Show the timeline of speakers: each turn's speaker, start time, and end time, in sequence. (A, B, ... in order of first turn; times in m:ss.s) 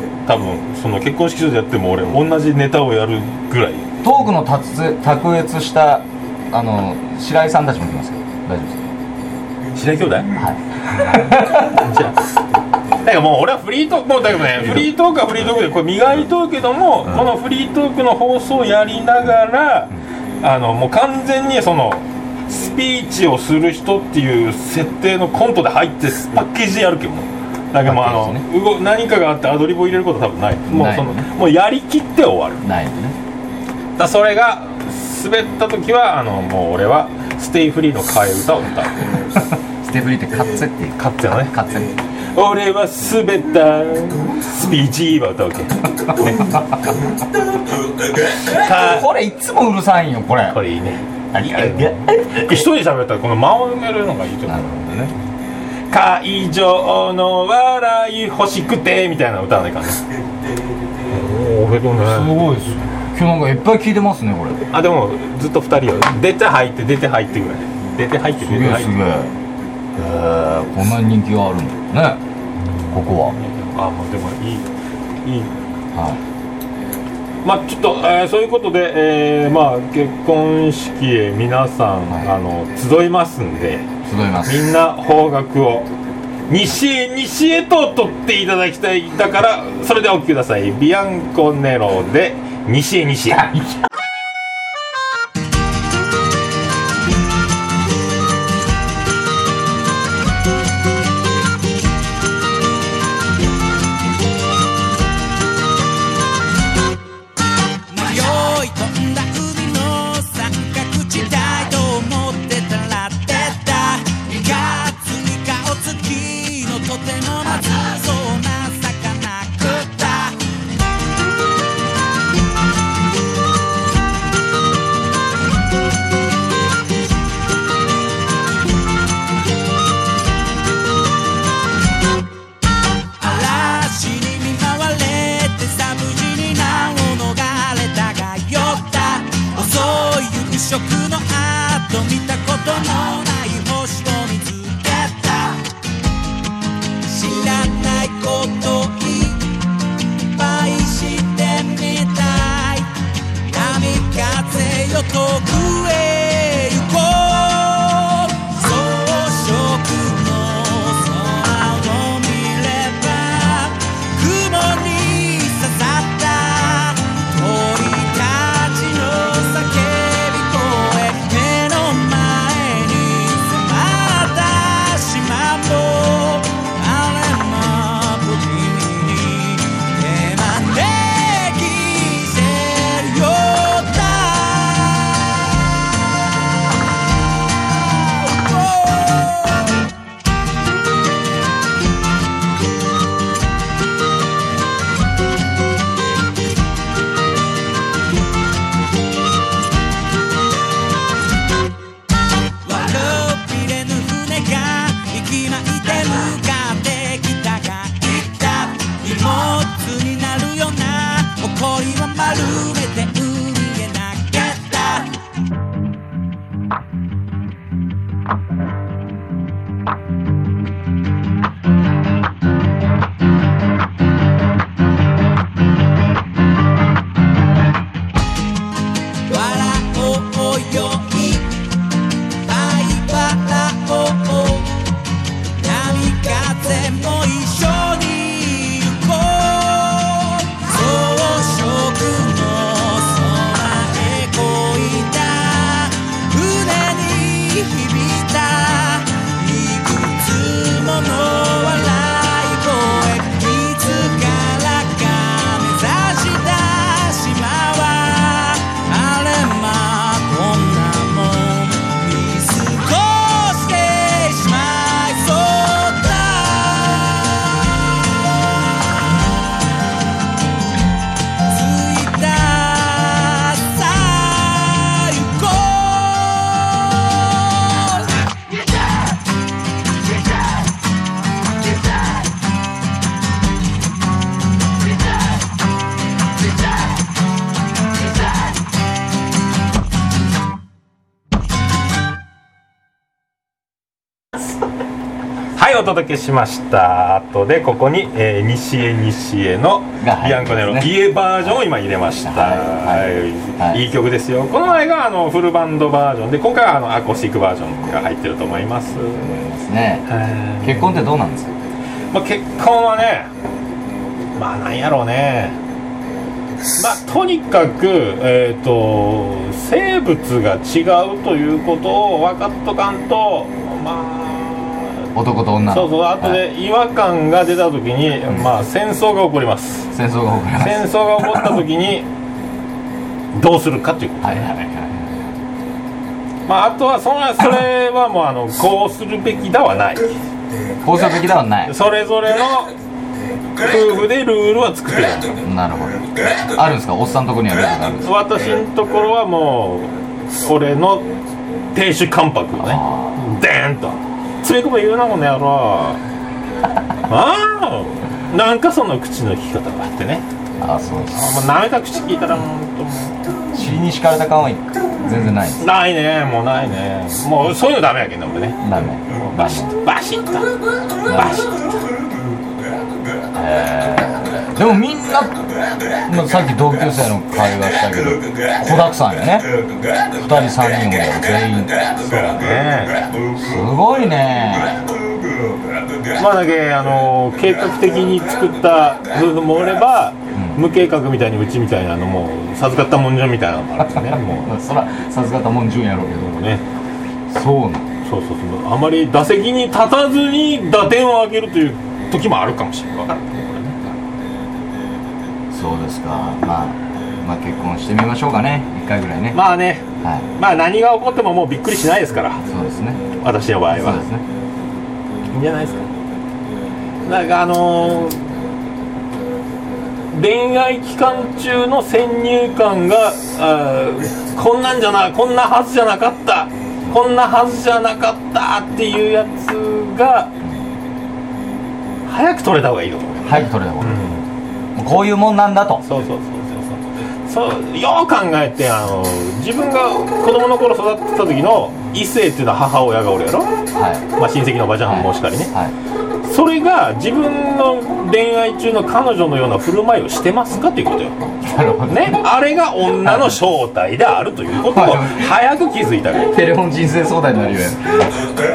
0:00.2-0:03.9 A
0:04.0-0:08.9 B
0:09.7-0:10.4 A
0:10.4-0:11.8 B
0:11.6-0:12.2 A
0:13.0-0:32.6 A
0:27.8-0:28.4 B
0:30.7-0:31.3 B
0:32.6-0:33.2 B
0:34.0-0:39.2 A
0:39.3-0:42.0 B
0:41.0-0:41.6 A
0:42.3-0:45.9 A
0:46.1-0:47.0 B
0:48.4-0:49.1 A
0:48.4-0:50.6 B
0:50.5-0:55.1 A
0:51.3-0:52.7 B
0:54.5-0:55.1 B
0:55.9-1:00.0 A
1:01.1-1:02.4 A
1:02.0-1:04.6 B
1:04.7-1:09.0 A
1:08.4-1:09.3 B
1:10.0-1:12.2 B
1:12.9-1:13.4 B
1:13.3-1:14.7 A
1:15.2-1:15.6 A
1:15.9-1:16.2 B
1:17.4-1:23.9 A
1:24.0-1:24.7 B
1:24.4-1:25.9 A
1:26.5-1:33.5 A
1:33.3-1:33.8 B
1:47.9-2:00.4 C
2:13.2-2:25.6 C
2:27.0-2:29.6 C
2:30.2-2:32.9 C
2:33.5-3:05.5 C
3:07.8-3:09.8 C
3:22.6-3:35.2 C
3:49.3-3:51.6 C
3:52.4-3:54.8 C
3:55.6-4:28.0 C
4:31.5-4:38.2 C
4:55.6-5:09.3 A
5:00.0-5:01.0 B
5:02.2-5:03.8 B
5:09.1-5:10.1 B
5:10.1-5:11.0 A
5:10.6-5:11.6 B
5:12.1-5:13.3 A
5:14.4-5:15.6 A
5:16.8-5:25.1 A
5:25.2-5:26.4 B
5:25.7-5:29.9 A
5:29.9-5:31.6 B
5:30.6-5:32.1 A
5:33.3-5:34.6 A
5:34.2-5:35.3 B
5:36.5-5:40.2 A
5:40.8-5:41.7 B
5:41.7-5:42.7 A
5:43.6-5:45.4 A
5:45.4-5:48.1 B
5:48.0-5:51.1 A
5:51.7-5:56.0 A
5:52.6-5:53.2 B
5:57.1-6:00.2 A
6:00.6-6:01.3 B
6:01.1-6:03.6 A
6:03.5-6:05.6 B
6:05.6-6:11.6 A
6:08.6-6:09.8 B
6:11.1-6:11.5 B
6:13.3-6:22.0 B
6:21.9-6:23.1 A
6:23.3-6:25.0 B
6:26.1-6:34.5 A
6:30.3-6:30.6 B
6:34.0-6:36.4 B
6:36.2-6:36.6 A
6:37.3-6:37.9 B
6:38.0-6:44.0 A
6:45.5-6:49.4 B
6:49.3-6:52.5 A
6:50.0-6:50.3 B
6:52.5-6:53.1 B
6:53.2-6:54.0 A
6:53.7-6:54.3 B
6:55.3-6:55.9 A
6:57.0-6:58.3 A
7:00.1-7:10.3 A
7:12.1-7:14.3 A
7:13.2-7:14.2 B
7:14.8-7:15.8 B
7:15.8-7:23.5 A
7:23.8-7:24.1 B
7:24.2-7:25.5 A
7:24.8-7:25.7 B
7:26.2-7:31.2 A
7:31.4-7:32.3 B
7:31.9-7:36.4 A
7:33.0-7:33.4 B
7:34.7-7:35.4 B
7:36.3-7:38.3 B